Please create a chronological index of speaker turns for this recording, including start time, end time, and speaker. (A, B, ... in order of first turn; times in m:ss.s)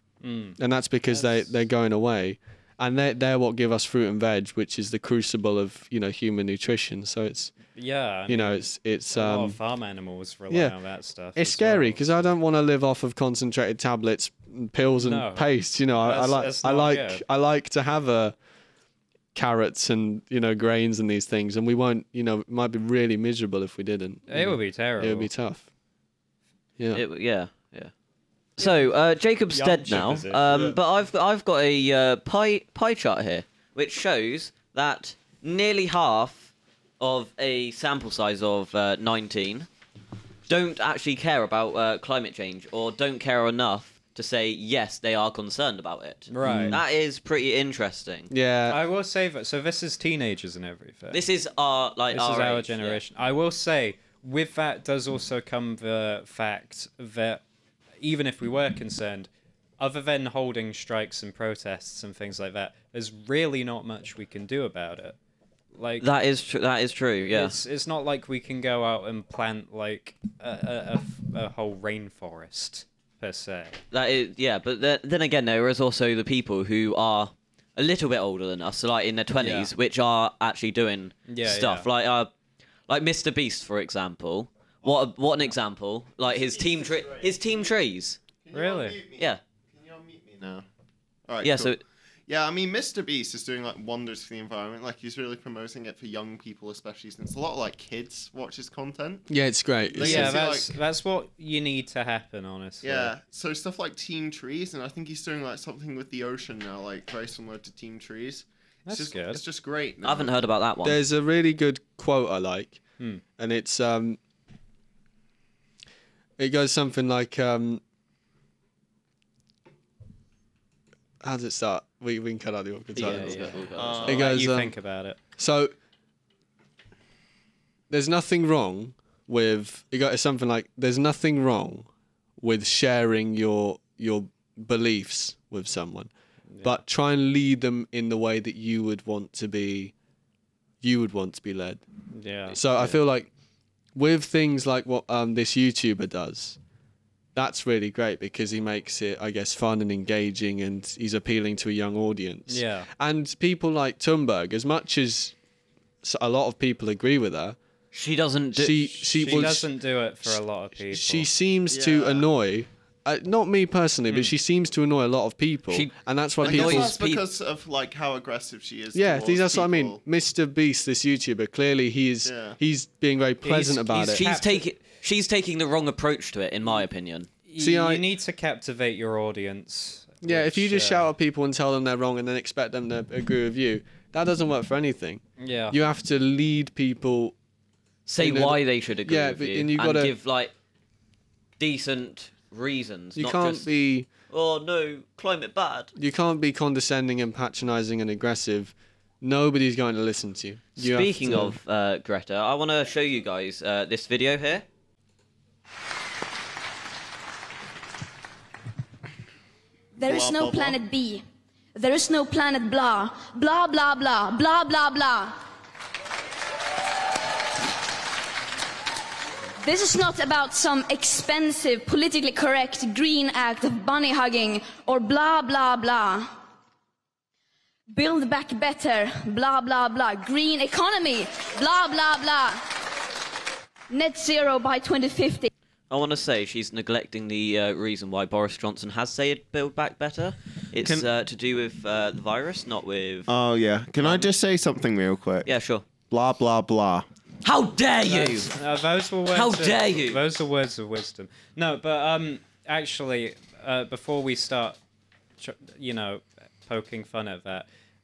0:00.2-0:00.6 A
0:00.6-0:07.6 B
0:01.1-0:01.5 A
0:07.8-0:12.3 A
0:08.3-0:09.6 B
0:11.4-0:18.4 B
0:15.0-0:17.2 A
0:19.3-0:25.7 B
0:24.3-0:25.3 A
0:26.9-0:27.9 C
0:28.6-0:39.7 C
0:29.5-0:30.4 A
0:40.5-0:48.3 C
0:46.3-0:46.8 A
0:46.4-0:46.8 B
0:48.3-0:48.8 B
0:48.7-0:51.2 A
0:51.1-0:53.0 C
0:52.1-0:57.4 A
0:58.0-1:05.2 A
1:05.7-1:06.0 A
1:06.0-1:07.6 C
1:07.3-1:13.8 A
1:13.9-1:22.3 C
1:19.4-1:19.7 A
1:21.3-1:21.9 A
1:22.9-1:28.2 C
1:26.2-1:27.7 D
1:28.4-1:30.7 D
1:28.5-1:29.0 A
1:31.3-1:39.3 D
1:31.4-1:31.8 C
1:39.3-1:40.4 B
1:39.9-1:40.7 D
1:40.0-1:43.1 A
1:42.8-1:50.4 D
1:48.9-1:49.4 A
1:50.0-1:51.0 C
1:50.8-1:52.8 B
1:53.4-1:54.2 B
1:56.4-1:57.8 B
2:01.2-2:04.7 B
2:03.0-2:04.3 C
2:03.0-2:05.2 A
2:03.8-2:04.2 D
2:05.4-2:05.7 B
2:07.9-2:16.1 B
2:16.6-2:19.9 B
2:20.8-2:21.8 B
2:22.1-2:23.0 A
2:22.5-2:23.3 B
2:24.0-2:26.6 B
2:27.4-2:35.4 B
2:32.5-2:32.9 A
2:36.0-2:37.6 B
2:37.9-2:39.5 C
2:38.6-2:39.7 B
2:39.1-2:41.3 A
2:40.2-2:47.0 B
2:41.7-2:42.3 D
2:45.7-2:47.2 C
2:46.4-2:50.0 D
2:48.9-2:54.2 B
2:52.2-2:52.6 D
2:53.4-2:54.7 A
2:54.1-2:57.3 C
2:57.5-3:01.1 A
2:57.6-2:58.0 B
3:00.2-3:07.4 B
3:05.4-3:05.8 A
3:08.1-3:10.5 C
3:08.2-3:10.1 B
3:11.6-3:13.7 C
3:13.2-3:14.1 B
3:14.3-3:15.9 C
3:16.0-3:21.6 B
3:20.8-3:24.6 C
3:30.0-3:31.2 E
3:30.0-3:30.8 D
3:31.8-3:35.4 E
3:39.6-3:46.3 E
3:47.9-3:52.6 E
3:53.9-3:55.5 E
3:55.9-4:03.3 C
4:00.8-4:01.1 D
4:03.3-4:05.5 D
4:05.4-4:05.8 C
4:06.1-4:07.1 D
4:07.4-4:08.5 C
4:08.0-4:14.8 A
4:09.3-4:10.2 C
4:15.4-4:17.7 A